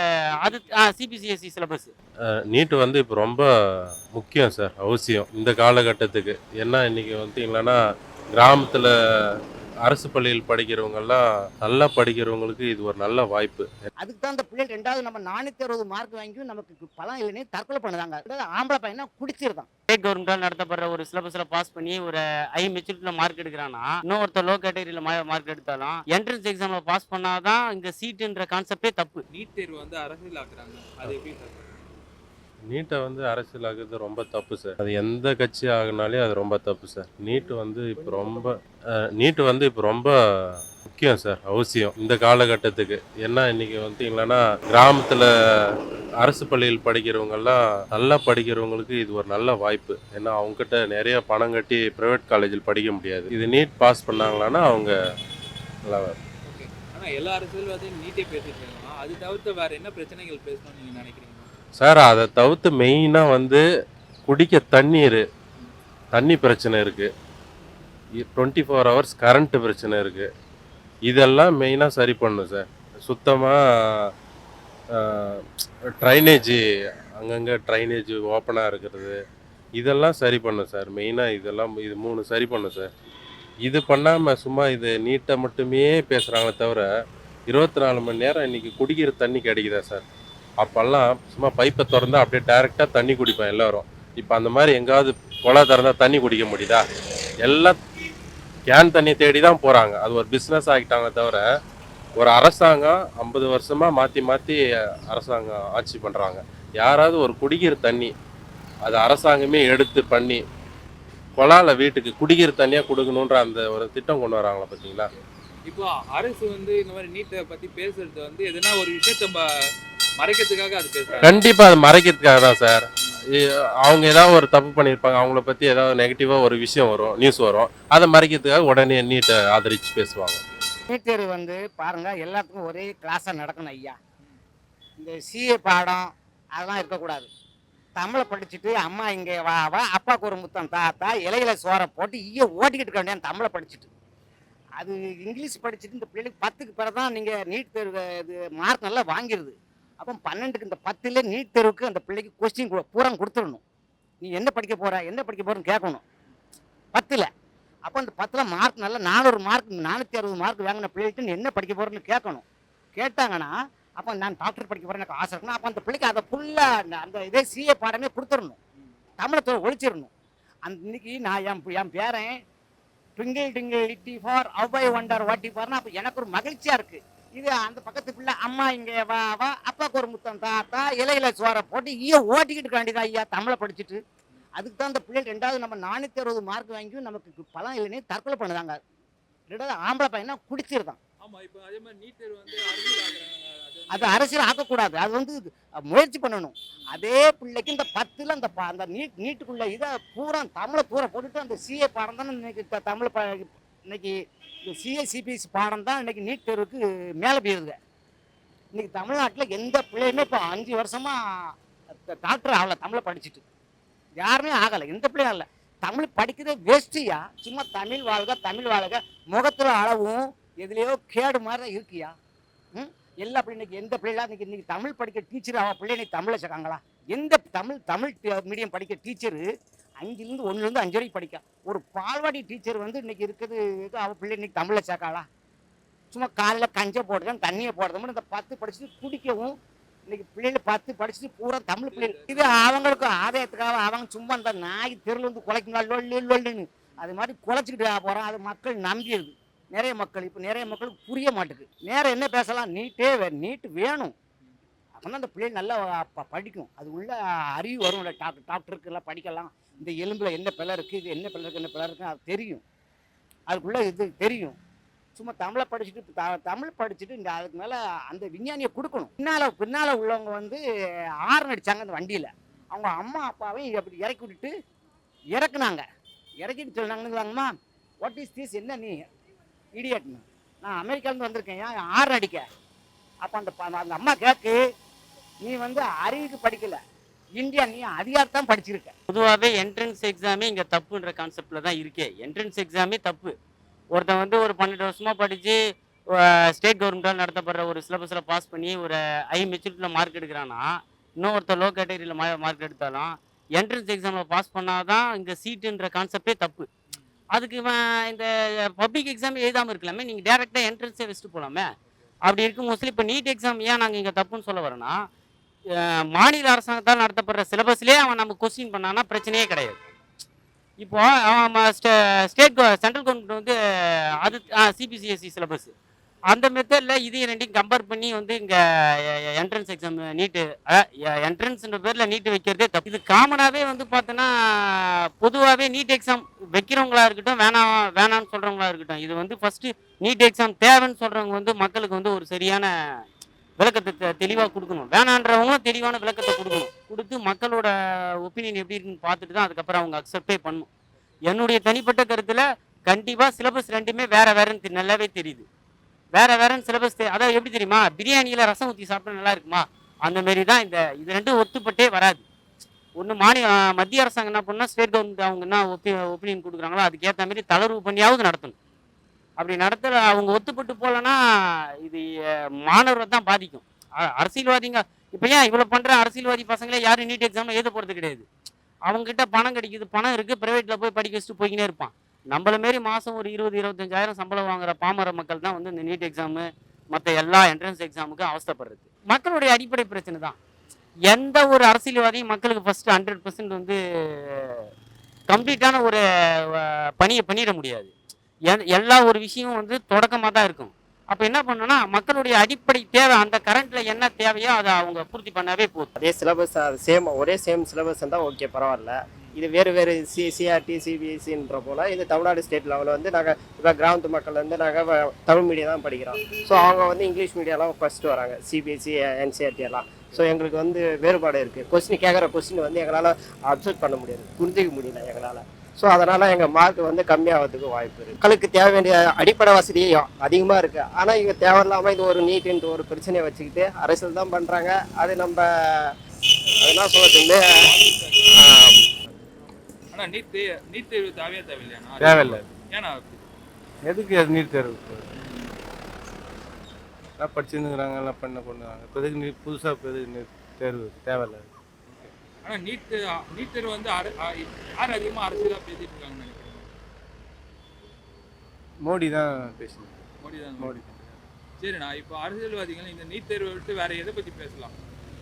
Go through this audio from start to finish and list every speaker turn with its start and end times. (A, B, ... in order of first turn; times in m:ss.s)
0:00.4-0:01.9 A
0:02.5-0:07.8 B
0:08.3-0:13.7 B
0:14.0-0:19.7 C
0:19.9-0:29.2 A
0:29.3-0:31.7 D
0:32.7-0:38.6 B
0:39.2-0:54.9 B
0:55.8-0:56.2 B
0:56.5-1:01.5 D
1:01.8-1:03.6 B
1:04.3-1:05.2 B
1:06.1-1:07.1 B
1:08.2-1:10.3 B
1:11.1-1:14.1 B
1:14.9-1:15.4 B
1:16.0-1:16.6 B
1:17.2-1:19.2 B
1:19.8-1:22.9 B
1:23.6-1:26.9 B
1:27.5-1:30.0 B
1:30.6-1:36.8 B
1:37.4-1:37.8 B
1:38.7-1:41.4 B
1:42.2-1:48.1 B
1:48.8-1:50.4 B
1:51.4-1:55.1 B
1:55.7-1:59.4 D
2:00.2-2:01.4 D
2:01.2-2:02.9 B
2:03.4-2:10.4 B
2:10.9-2:14.0 C
2:15.0-2:17.3 C
2:18.0-2:23.9 C
2:24.8-2:33.6 C
2:34.2-2:36.0 C
2:36.9-2:37.3 C
2:37.9-2:48.6 C
2:49.2-2:50.1 C
2:50.6-2:52.3 C
2:53.2-3:04.0 C
3:04.6-3:08.8 C
3:09.5-3:11.0 C
3:11.2-3:14.5 D
3:13.9-3:24.1 C
3:24.7-3:27.7 C
3:28.7-3:31.2 C
3:32.0-3:33.4 C
3:34.2-3:42.1 C
3:42.7-3:49.4 C
3:50.0-3:55.3 C
3:56.1-3:59.5 C
4:00.1-4:14.1 C
4:01.9-4:02.7 D
4:15.0-4:22.6 C
4:23.5-4:24.6 C
4:25.2-4:30.6 C
4:31.3-4:34.5 C
4:35.3-4:35.8 C
4:36.4-4:37.5 C
4:38.0-4:39.0 C
4:39.8-4:42.4 C
4:43.2-4:44.6 C
4:45.4-4:46.8 C
4:47.4-4:48.9 C
4:49.1-4:53.3 A
4:53.9-4:55.6 A
4:56.2-5:00.6 A
5:01.2-5:06.7 A
5:07.3-5:11.6 A
5:12.2-5:14.9 A
5:15.8-5:19.8 A
5:20.8-5:23.5 A
5:24.2-5:25.7 A
5:26.3-5:42.7 A
5:43.6-5:47.7 A
5:48.2-5:50.7 A
5:51.2-5:55.4 A
5:56.1-6:02.2 A
6:03.0-6:08.5 A
6:09.4-6:11.2 A
6:12.6-6:18.2 A
6:18.9-6:30.4 A
6:31.1-6:34.6 A
6:35.3-6:37.9 A
6:38.5-6:45.9 A
6:46.0-7:16.0 E
6:49.2-6:49.5 D
7:16.6-7:17.4 E
7:16.7-7:18.7 D
7:18.4-7:18.8 E
7:19.9-7:23.2 D
7:22.0-7:22.4 F
7:23.8-7:25.0 F
7:25.1-7:25.5 D
7:27.2-7:31.5 F
7:31.9-7:36.7 D
7:38.8-7:40.0 F
7:40.2-7:44.8 D